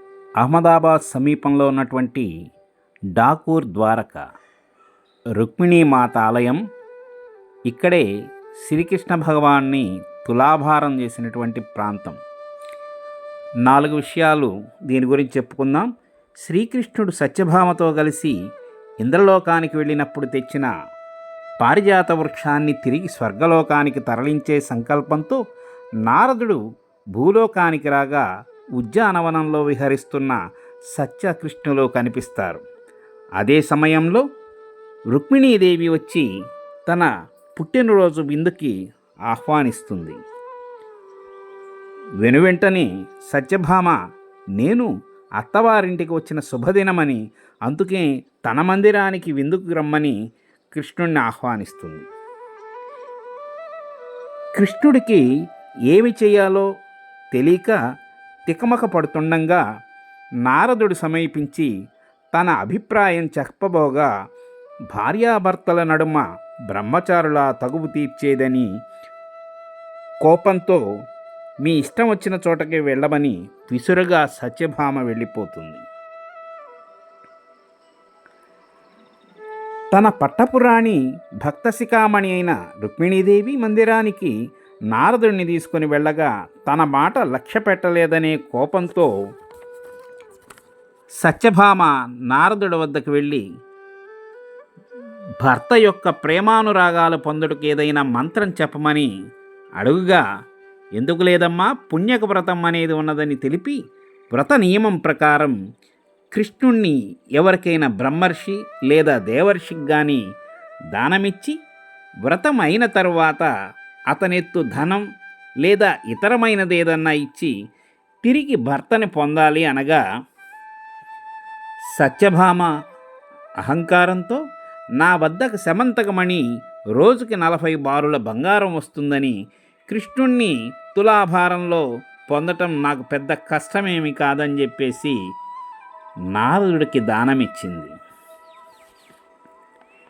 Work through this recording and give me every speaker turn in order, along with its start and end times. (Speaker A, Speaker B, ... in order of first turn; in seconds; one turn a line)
Speaker A: 0.4-2.3
Speaker A: 3.1-4.2
Speaker A: 5.4-6.6
Speaker A: 7.7-8.0
Speaker A: 8.6-12.2
Speaker A: 13.7-15.9
Speaker A: 16.4-18.3
Speaker A: 19.0-20.7
Speaker A: 21.6-25.4
Speaker A: 26.1-26.6
Speaker A: 27.1-28.2
Speaker A: 28.8-30.4
Speaker A: 30.9-32.6
Speaker A: 33.4-34.2
Speaker A: 35.1-36.2
Speaker A: 36.9-38.7
Speaker A: 39.3-40.2
Speaker A: 42.2-44.0
Speaker A: 44.6-50.1
Speaker A: 50.7-52.0
Speaker A: 54.6-55.2
Speaker A: 55.9-56.7
Speaker A: 57.3-57.8
Speaker A: 58.5-59.6
Speaker A: 60.5-61.7
Speaker A: 62.3-64.1
Speaker A: 64.9-68.7
Speaker A: 70.2-70.8
Speaker A: 71.6-75.8
Speaker A: 79.9-84.3
Speaker A: 84.9-89.1
Speaker A: 91.2-93.4
Speaker A: 95.4-99.1
Speaker A: 99.8-100.2
Speaker A: 101.0-103.8
Speaker A: 104.3-105.5
Speaker A: 106.3-110.2
Speaker A: 110.9-111.6
Speaker A: 112.2-113.5
Speaker A: 114.1-115.0
Speaker A: 115.6-117.5
Speaker A: 118.2-120.0
Speaker A: 121.9-122.7
Speaker A: 123.6-124.4
Speaker A: 125.0-126.4
Speaker A: 127.0-129.3
Speaker A: 129.9-135.2
Speaker A: 136.3-137.9